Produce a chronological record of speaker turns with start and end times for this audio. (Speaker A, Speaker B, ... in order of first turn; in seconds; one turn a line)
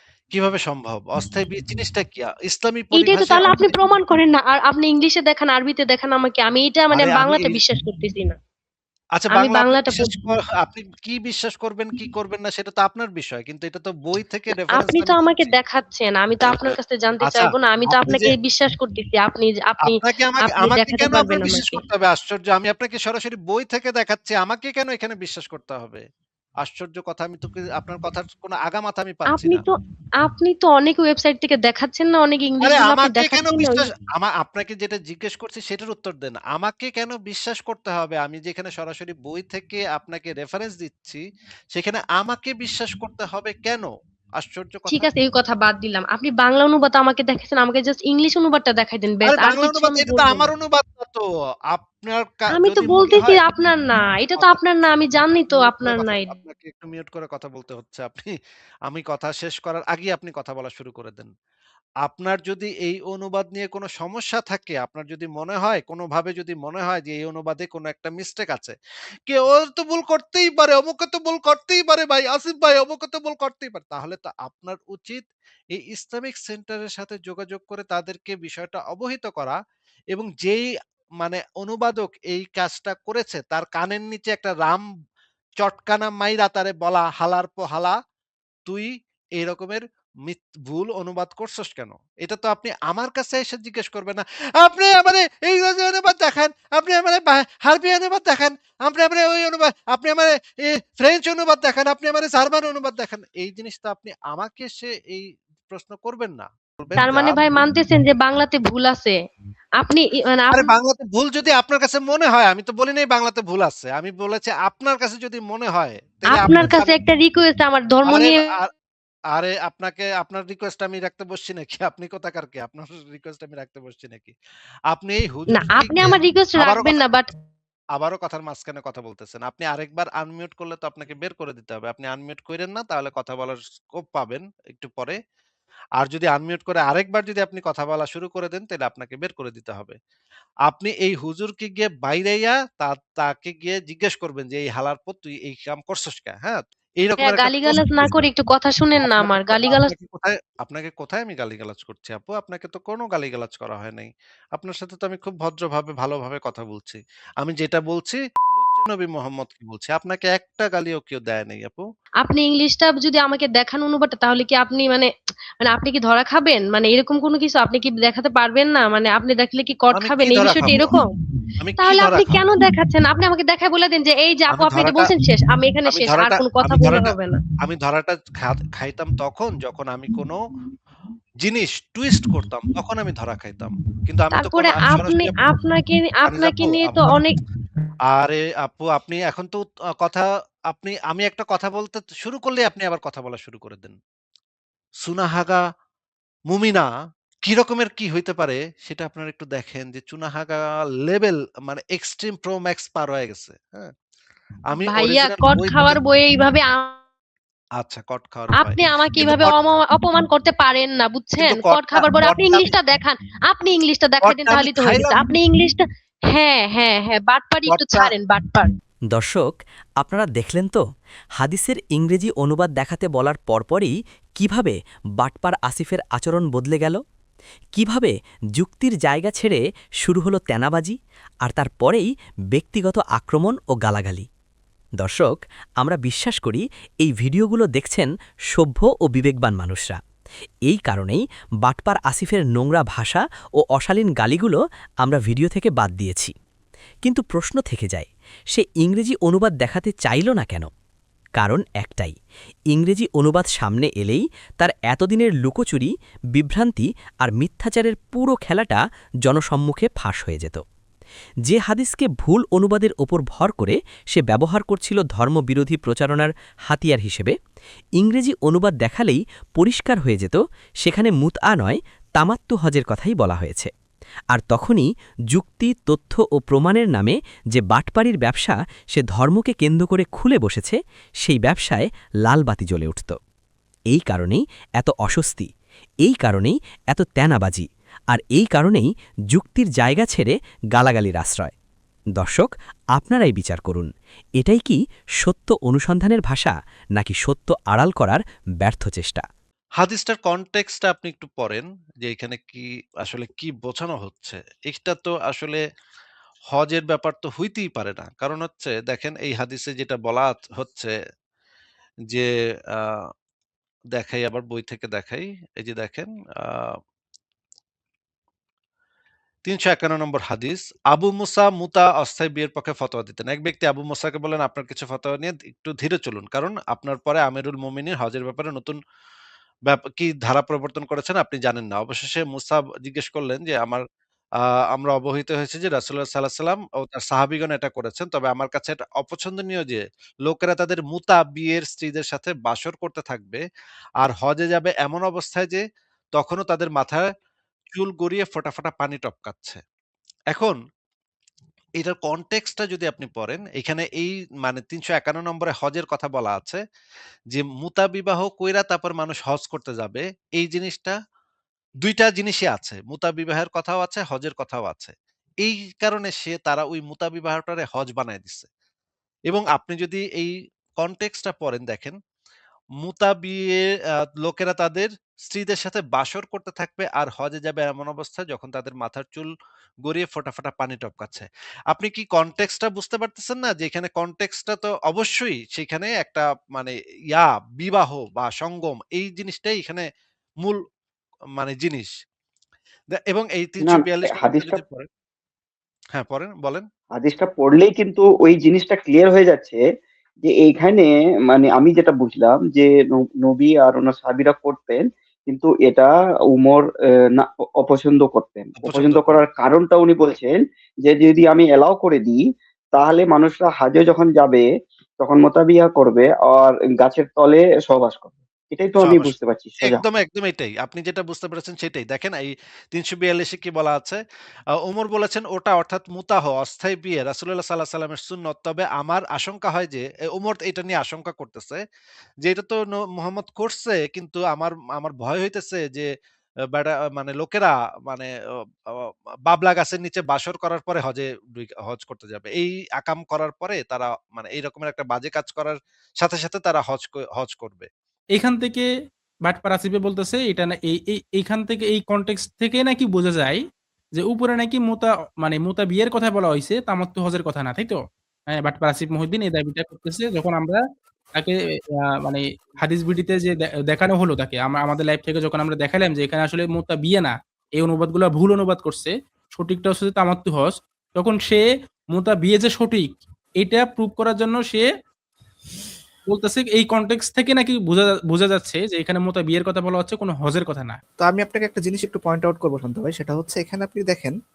Speaker A: 0.3-3.7
Speaker B: 3.0-8.4
Speaker A: 6.9-7.6
Speaker A: 9.2-15.5
Speaker B: 9.3-10.2
Speaker B: 14.7-21.8
Speaker A: 16.4-18.3
Speaker A: 19.8-26.0
Speaker A: 26.6-29.6
Speaker B: 29.3-33.9
Speaker A: 32.6-41.2
Speaker A: 41.7-45.1
Speaker B: 44.9-50.5
Speaker A: 49.2-53.4
Speaker B: 52.6-56.3
Speaker A: 55.5-58.3
Speaker A: 58.9-61.3
Speaker A: 62.0-68.8
Speaker A: 69.3-79.6
Speaker A: 80.1-80.7
Speaker A: 81.2-84.8
Speaker A: 85.6-88.0
Speaker A: 88.7-107.6
Speaker B: 107.0-109.2
Speaker B: 109.8-110.7
Speaker A: 110.5-116.9
Speaker B: 116.3-118.4
Speaker A: 118.0-118.7
Speaker A: 119.3-124.3
Speaker A: 124.9-127.0
Speaker B: 125.5-127.3
Speaker A: 128.0-135.2
Speaker A: 136.0-140.0
Speaker A: 140.7-148.2
Speaker B: 147.2-149.9
Speaker A: 149.0-161.8
Speaker B: 162.2-165.1
Speaker B: 165.6-171.1
Speaker A: 169.9-170.9
Speaker A: 171.6-172.4
Speaker B: 171.8-177.4
Speaker A: 174.5-175.1
Speaker A: 175.9-180.4
Speaker A: 181.4-185.3
Speaker B: 184.4-187.4
Speaker A: 186.2-187.0
Speaker A: 188.1-194.0
Speaker A: 195.0-195.6
Speaker A: 196.5-196.9
Speaker A: 197.4-203.9
Speaker A: 204.7-206.0
Speaker B: 204.9-207.0
Speaker A: 207.8-209.7
Speaker B: 208.6-215.8
Speaker A: 211.4-212.7
Speaker A: 214.2-215.2
Speaker B: 216.3-218.7
Speaker A: 217.7-218.1
Speaker C: 219.1-220.8
Speaker C: 221.4-227.0
Speaker C: 227.7-234.3
Speaker C: 235.0-240.0
Speaker C: 240.7-246.3
Speaker C: 247.0-250.7
Speaker C: 251.4-252.1
Speaker C: 252.7-260.6
Speaker C: 261.4-267.4
Speaker C: 268.0-273.7
Speaker C: 274.3-283.2
Speaker C: 283.9-285.5
Speaker C: 286.0-291.5
Speaker C: 292.1-299.2
Speaker A: 299.8-305.6
Speaker A: 306.5-310.9
Speaker A: 312.1-313.1
Speaker A: 313.9-316.7
Speaker A: 319.4-328.8
Speaker A: 329.7-333.8
Speaker A: 334.7-343.4
Speaker A: 344.0-345.6
Speaker A: 346.1-347.1
Speaker A: 347.7-349.6
Speaker A: 350.3-350.6
Speaker A: 351.8-356.6
Speaker A: 357.3-360.9
Speaker A: 361.8-368.5
Speaker A: 369.3-372.0
Speaker A: 372.8-373.6
Speaker A: 374.2-379.3
Speaker A: 379.8-389.8
Speaker A: 391.4-391.9
Speaker A: 392.9-394.9
Speaker D: 393.6-394.6
Speaker A: 395.9-396.6
Speaker D: 396.9-399.6
Speaker D: 400.2-412.2
Speaker A: 408.6-409.2
Speaker D: 412.7-414.4
Speaker D: 415.0-419.8
Speaker A: 418.8-424.0
Speaker A: 424.6-431.6
Speaker A: 432.2-435.9
Speaker A: 436.5-438.1
Speaker A: 438.7-447.7
Speaker E: 448.1-448.6
Speaker E: 449.3-453.4
Speaker E: 453.9-457.8
Speaker E: 458.3-460.6
Speaker E: 462.0-474.7
Speaker E: 476.1-480.8
Speaker F: 481.0-484.1